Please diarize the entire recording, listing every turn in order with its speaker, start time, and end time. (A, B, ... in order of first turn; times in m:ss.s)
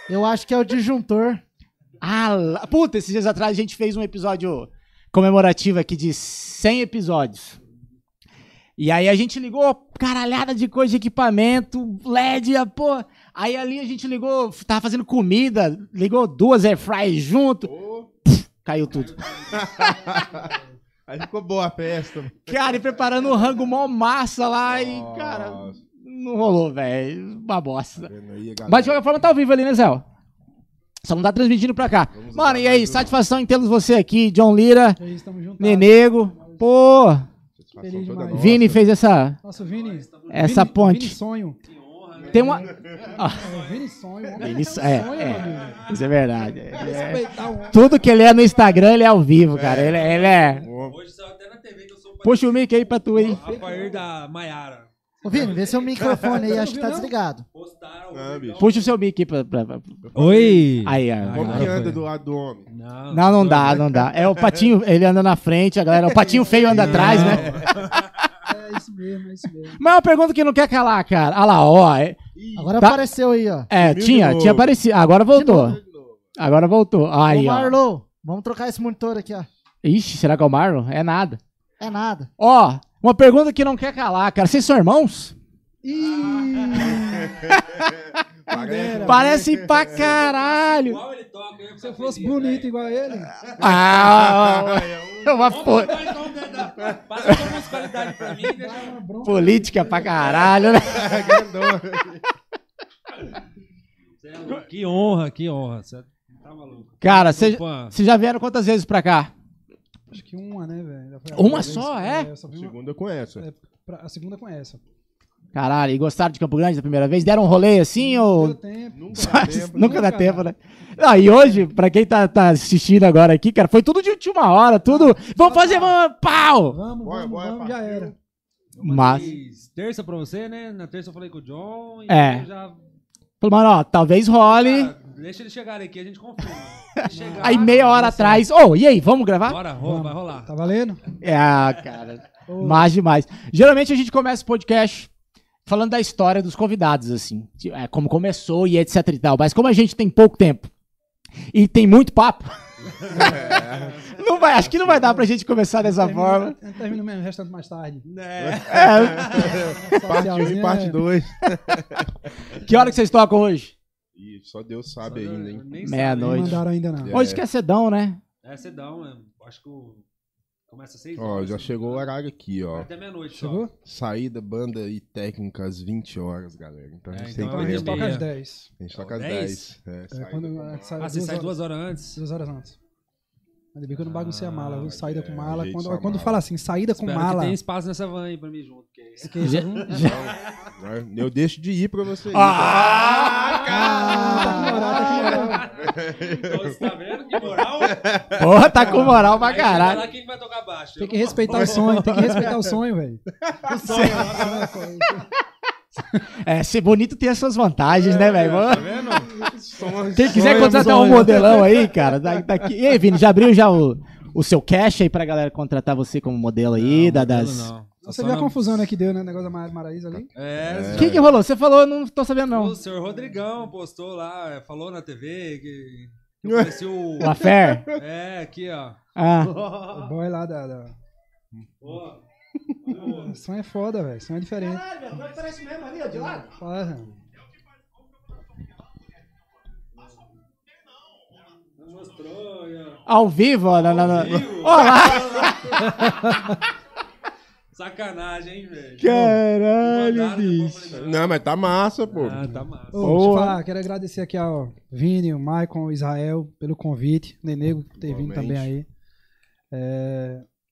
0:00.1-0:01.4 A
0:02.0-0:07.6 B
0:08.8-0:17.7 B
0:17.6-0:18.1 C
0:18.2-0:19.2 B
0:18.9-0:20.5 D
0:19.5-0:20.5 C
0:21.1-0:22.8 C
0:22.5-0:28.1 B
0:24.7-0:25.8 C
0:28.0-0:29.0 C
0:28.7-0:30.0 B
0:31.0-0:35.0 B
0:32.1-0:33.1 C
0:35.0-0:36.7 E
0:35.6-0:37.2 B
0:37.6-0:38.9 C
0:37.8-0:38.6 E
0:38.3-0:39.4 B
0:39.4-0:41.6 E
0:39.5-0:40.6 D
0:40.3-0:41.2 B
0:41.6-0:43.8 D
0:42.2-0:43.1 C
0:42.3-0:43.4 B
0:43.4-0:45.8 E
0:44.4-0:50.7 B
0:45.0-0:46.0 D
0:46.7-0:48.0 E
0:49.5-0:50.0 C
0:49.8-0:56.2 D
0:50.6-0:51.0 C
0:52.2-0:53.4 B
0:53.2-0:54.0 E
0:55.2-0:57.4 A
0:56.2-0:57.1 E
0:57.5-0:58.9 D
0:58.1-0:58.6 C
0:58.6-1:00.0 B
1:00.1-1:00.7 C
1:00.1-1:02.1 D
1:00.8-1:01.9 B
1:01.3-1:02.7 C
1:02.7-1:03.9 D
1:03.1-1:08.0 B
1:03.9-1:04.6 C
1:06.0-1:08.0 C
1:06.6-1:08.0 D
1:08.4-1:09.8 E
1:09.8-1:12.2 B
1:12.4-1:12.8 C
1:12.6-1:13.7 A
1:13.7-1:15.8 B
1:13.8-1:14.8 C
1:15.3-1:15.8 A
1:15.5-1:16.2 C
1:16.4-1:17.8 B
1:17.3-1:19.5 A
1:19.8-1:21.4 B
1:21.8-1:22.3 A
1:22.4-1:25.3 B
1:25.8-1:27.4 E
1:26.0-1:27.2 D
1:26.9-1:30.2 C
1:27.5-1:27.9 B
1:28.5-1:29.4 E
1:29.0-1:31.0 B
1:30.0-1:32.7 D
1:31.8-1:33.3 E
1:33.6-1:36.2 B
1:33.6-1:35.8 C
1:35.4-1:39.0 D
1:36.6-1:37.4 C
1:38.5-1:40.2 E
1:39.2-1:41.4 B
1:40.2-1:42.2 C
1:44.2-1:47.9 D
1:47.0-1:49.3 B
1:50.1-1:52.8 E
1:51.3-1:52.3 B
1:52.5-1:53.4 C
1:53.4-1:54.8 E
1:55.5-1:58.6 B
1:58.0-2:00.5 E
1:58.9-2:00.1 C
1:59.1-2:06.8 B
2:04.9-2:06.0 E
2:06.7-2:08.1 E
2:07.0-2:08.1 C
2:08.7-2:12.8 D
2:08.8-2:09.3 B
2:12.1-2:12.5 B
2:13.4-2:14.9 B
2:14.4-2:17.9 D
2:17.0-2:19.6 B
2:17.1-2:18.4 E
2:19.4-2:20.5 D
2:19.8-2:21.0 E
2:21.2-2:25.1 B
2:22.5-2:22.9 E
2:25.6-2:30.7 B
2:31.5-2:32.5 B
2:33.1-2:34.1 C
2:33.1-2:34.2 D
2:33.1-2:36.6 B
2:34.6-2:35.0 C
2:35.0-2:35.3 E
2:35.8-2:38.0 E
2:38.0-2:39.8 D
2:38.4-2:42.1 C
2:38.7-2:40.2 B
2:39.9-2:41.0 E
2:42.6-2:43.7 B
2:44.1-2:45.6 C
2:45.0-2:46.6 D
2:45.8-2:48.2 B
2:46.2-2:47.2 E
2:47.0-2:47.4 C
2:48.4-2:50.0 D
2:50.7-2:52.1 D
2:51.2-2:52.9 C
2:52.7-2:53.7 D
2:53.3-2:53.7 E
2:53.8-2:58.2 C
2:57.1-2:58.3 D
2:57.4-2:58.7 E
2:58.8-3:01.3 C
2:58.9-2:59.7 D
3:00.1-3:01.6 E
3:01.0-3:02.2 D
3:02.1-3:02.8 E
3:03.7-3:07.6 E
3:04.0-3:05.0 D
3:04.8-3:06.4 C
3:06.9-3:10.7 D
3:09.2-3:09.9 E
3:09.4-3:10.2 B
3:10.0-3:14.6 C
3:12.3-3:15.6 B
3:12.5-3:18.2 D
3:13.6-3:15.7 E
3:15.7-3:16.8 C
3:17.4-3:19.1 C
3:18.3-3:20.1 B
3:18.8-3:22.6 D
3:21.0-3:23.2 E
3:21.5-3:22.6 C
3:23.4-3:24.6 C
3:23.7-3:24.7 D
3:23.7-3:24.4 B
3:23.9-3:25.3 E
3:26.4-3:28.9 B
3:28.1-3:29.3 D
3:28.2-3:28.8 C
3:29.4-3:32.6 C
3:30.1-3:37.7 B
3:30.3-3:31.6 D
3:36.7-3:38.7 D
3:38.0-3:40.3 E
3:40.3-3:41.2 D
3:40.5-3:41.3 C
3:40.9-3:42.8 B
3:42.5-3:47.4 D
3:46.4-3:48.0 C
3:47.2-3:47.8 B
3:47.9-3:50.1 D
3:49.2-3:49.5 B
3:49.9-3:50.9 E
3:51.8-3:52.2 D
3:52.8-3:53.4 D
3:53.0-3:54.9 E
3:54.6-3:56.5 B
3:56.4-3:57.1 E
4:01.8-4:03.0 D
4:03.0-4:05.8 B
4:03.9-4:05.5 C
4:03.9-4:06.6 D
4:07.7-4:09.1 D
4:09.0-4:10.8 B
4:09.8-4:11.4 D
4:10.9-4:12.6 C
4:12.1-4:13.1 D
4:12.9-4:18.9 E
4:13.0-4:13.6 B
4:18.0-4:18.7 C
4:19.7-4:20.4 E